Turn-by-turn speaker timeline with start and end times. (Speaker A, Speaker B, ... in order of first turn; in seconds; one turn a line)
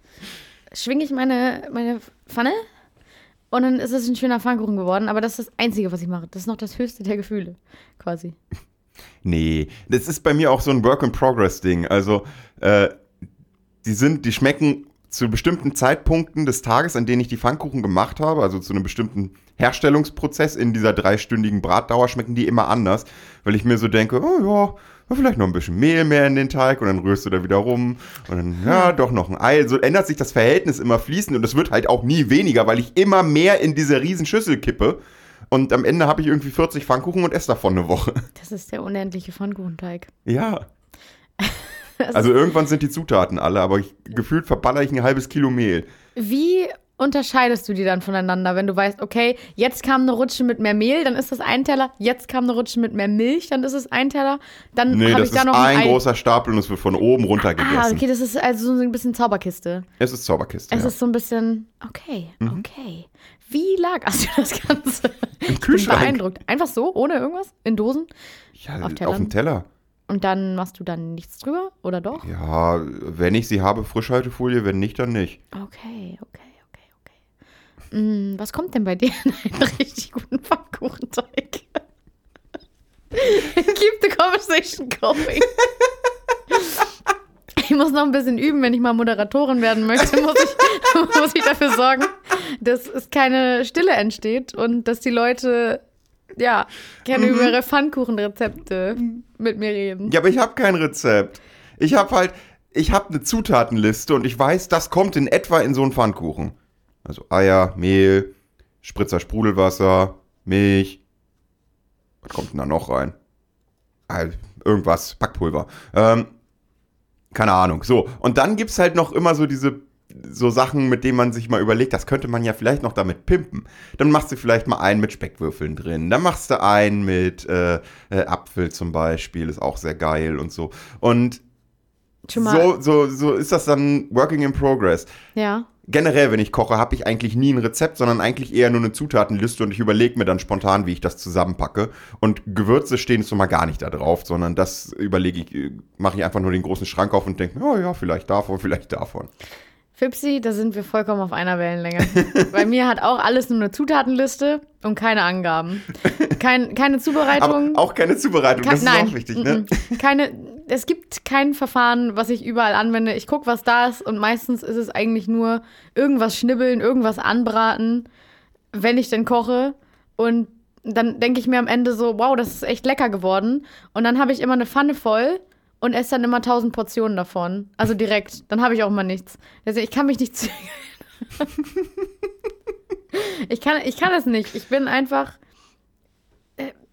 Speaker A: 0.7-2.6
Speaker A: 3.5-8.4
Speaker B: 9.2-12.9
Speaker B: 13.8-35.0
Speaker A: 28.6-28.9
Speaker B: 35.5-38.2
Speaker A: 38.4-40.1
Speaker B: 40.2-40.6
Speaker A: 41.4-42.5
Speaker B: 42.1-45.9
Speaker A: 46.1-56.0
Speaker B: 54.9-58.0
Speaker A: 57.4-59.9
Speaker B: 60.0-60.9
Speaker A: 60.7-68.1
Speaker B: 65.5-66.2
Speaker B: 68.6-69.7
Speaker A: 68.8-69.3
Speaker A: 70.1-72.3
Speaker B: 72.2-75.4
Speaker A: 75.5-77.1
Speaker A: 77.9-81.8
Speaker A: 83.1-85.5
Speaker A: 86.5-86.8
Speaker A: 87.5-95.8
Speaker A: 96.4-100.1
Speaker B: 97.1-97.5
Speaker B: 100.1-108.3
Speaker B: 108.8-111.0
Speaker B: 112.2-113.1
Speaker B: 114.1-116.3
Speaker B: 117.3-131.4
Speaker A: 132.3-132.7
Speaker B: 132.3-135.1
Speaker A: 135.3-135.7
Speaker B: 135.9-149.3
Speaker A: 150.0-157.8
Speaker B: 157.3-159.7
Speaker A: 158.6-168.1
Speaker A: 168.7-181.5
Speaker A: 183.1-185.4